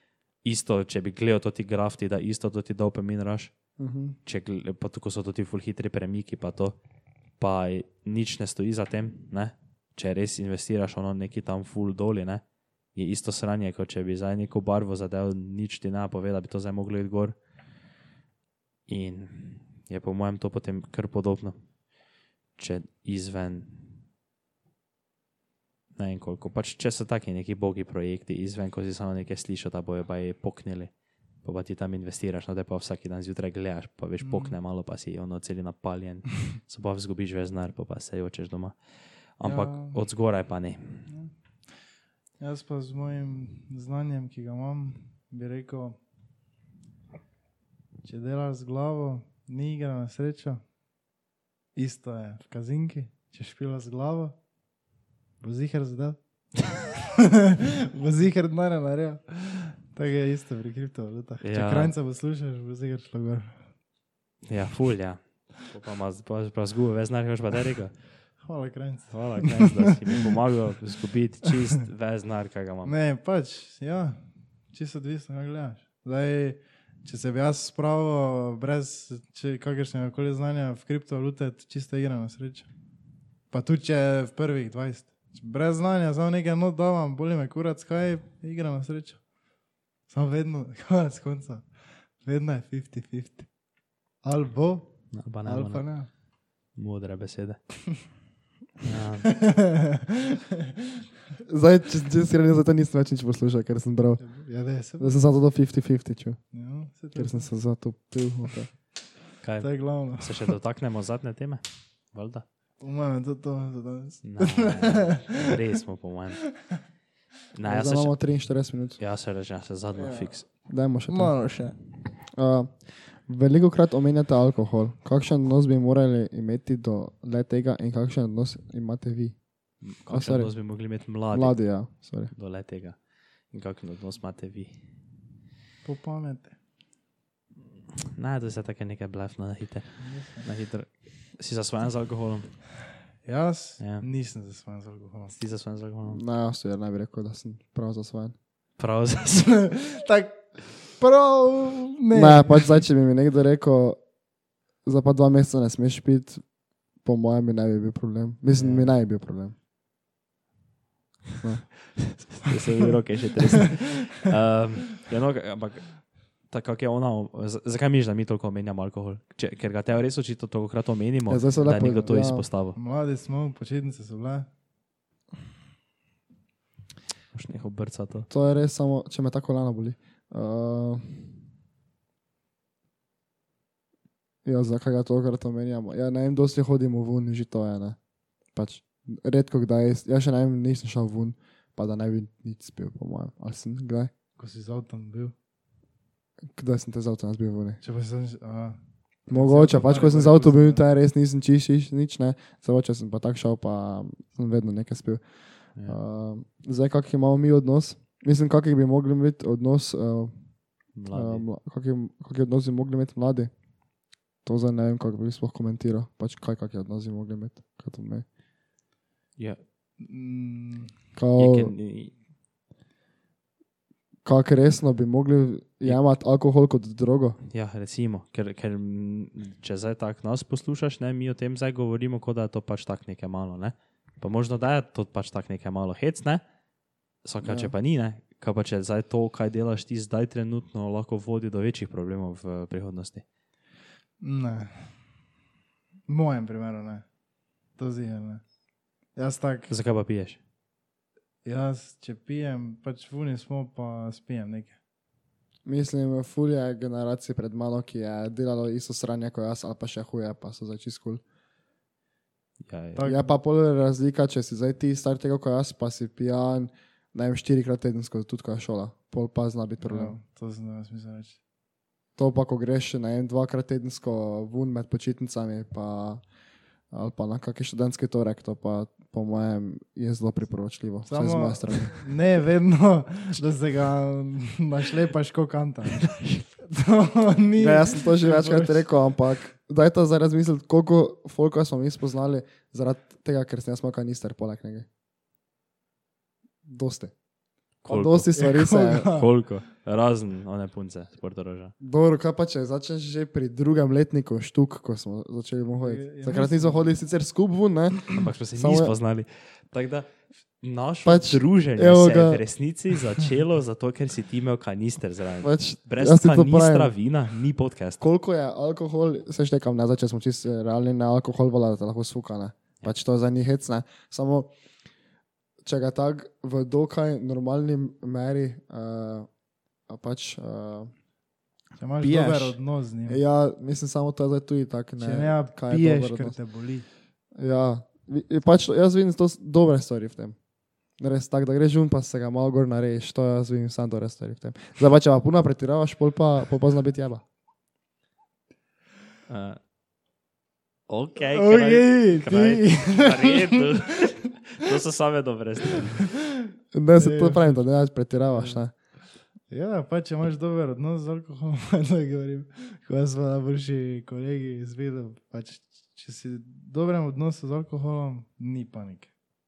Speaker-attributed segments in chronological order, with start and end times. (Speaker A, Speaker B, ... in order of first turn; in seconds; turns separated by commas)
Speaker A: 0.4-3.5, Speaker B: 3.8-4.2, Speaker A: 4.2-6.8, Speaker A: 7.4-17.4, Speaker A: 18.9-21.6, Speaker A: 22.6-23.9, Speaker A: 26.0-41.1, Speaker C: 34.2-34.6, Speaker C: 39.4-40.0, Speaker C: 41.1-41.9, Speaker C: 42.4-46.0, Speaker C: 48.0-50.6, Speaker C: 51.8-54.4, Speaker C: 55.4-56.9, Speaker C: 57.9-63.7, Speaker A: 61.4-61.9, Speaker A: 64.5-68.1, Speaker C: 68.4-69.9, Speaker A: 69.1-73.0, Speaker C: 72.8-82.7, Speaker C: 83.5-89.3, Speaker C: 90.1-93.5, Speaker C: 94.2-96.1, Speaker A: 95.1-96.2, Speaker A: 96.7-97.8, Speaker A: 98.8-99.4, Speaker C: 99.3-100.1, Speaker B: 101.5-104.4, Speaker C: 104.2-105.2, Speaker B: 105.0-106.5, Speaker C: 106.5-107.5, Speaker B: 107.1-108.8, Speaker A: 109.4-112.5, Speaker C: 109.6-110.5, Speaker C: 112.8-115.4, Speaker A: 114.2-116.7, Speaker A: 117.5-118.2, Speaker B: 117.7-119.0, Speaker A: 119.0-120.5, Speaker B: 120.0-121.5, Speaker C: 120.6-122.0, Speaker B: 122.3-132.3, Speaker A: 129.8-134.8, Speaker C: 135.8-136.6, Speaker A: 138.2-142.7, Speaker C: 140.0-140.5, Speaker C: 143.2-145.4, Speaker A: 143.8-144.1, Speaker A: 145.3-146.2, Speaker B: 146.1-148.4, Speaker A: 148.8-149.6, Speaker C: 149.4-152.8, Speaker B: 152.1-154.1, Speaker B: 154.8-159.6, Speaker A: 158.5-158.9, Speaker B: 161.4-162.3, Speaker A: 162.0-172.8, Speaker B: 171.3-172.5, Speaker C: 172.8-174.5, Speaker A: 177.3-178.3, Speaker B: 178.3-181.4, Speaker B: 184.4-188.0, Speaker B: 188.5-194.1, Speaker C: 194.4-195.3, Speaker B: 196.5-197.8, Speaker C: 197.8-200.8, Speaker B: 199.3-213.5, Speaker A: 210.9-211.5, Speaker B: 214.4-218.2, Speaker A: 219.4-219.6, Speaker C: 220.0-220.9, Speaker B: 221.2-221.8, Speaker A: 221.4-222.2, Speaker B: 224.2-227.4, Speaker A: 227.5-236.4, Speaker A: 237.2-243.2, Speaker B: 237.4-237.7, Speaker C: 244.2-245.1, Speaker C: 246.1-247.1, Speaker C: 247.8-248.4, Speaker C: 249.2-249.7, Speaker A: 249.7-250.4, Speaker C: 251.4-254.8, Speaker B: 255.7-261.2, Speaker A: 262.7-263.1, Speaker C: 262.9-263.3, Speaker B: 263.0-270.2, Speaker C: 269.8-271.4, Speaker B: 272.2-276.3, Speaker B: 276.9-282.1, Speaker C: 281.1-288.9, Speaker A: 286.1-286.4, Speaker B: 287.6-294.9, Speaker B: 296.6-297.1, Speaker B: 297.8-299.1, Speaker A: 297.8-301.7, Speaker C: 298.3-299.4, Speaker B: 301.8-308.9, Speaker C: 305.8-306.9, Speaker A: 308.1-318.0, Speaker B: 311.1-312.4, Speaker B: 315.4-316.9, Speaker B: 318.0-324.5, Speaker B: 325.6-329.3, Speaker B: 329.9-330.9, Speaker C: 331.8-333.2, Speaker B: 332.0-336.4, Speaker C: 335.0-336.9, Speaker B: 337.4-340.4, Speaker B: 340.9-347.2, Speaker A: 349.3-349.6, Speaker A: 350.9-356.0, Speaker C: 351.3-353.8, Speaker B: 356.7-358.8, Speaker C: 357.0-357.5, Speaker C: 358.3-358.8, Speaker C: 359.5-369.1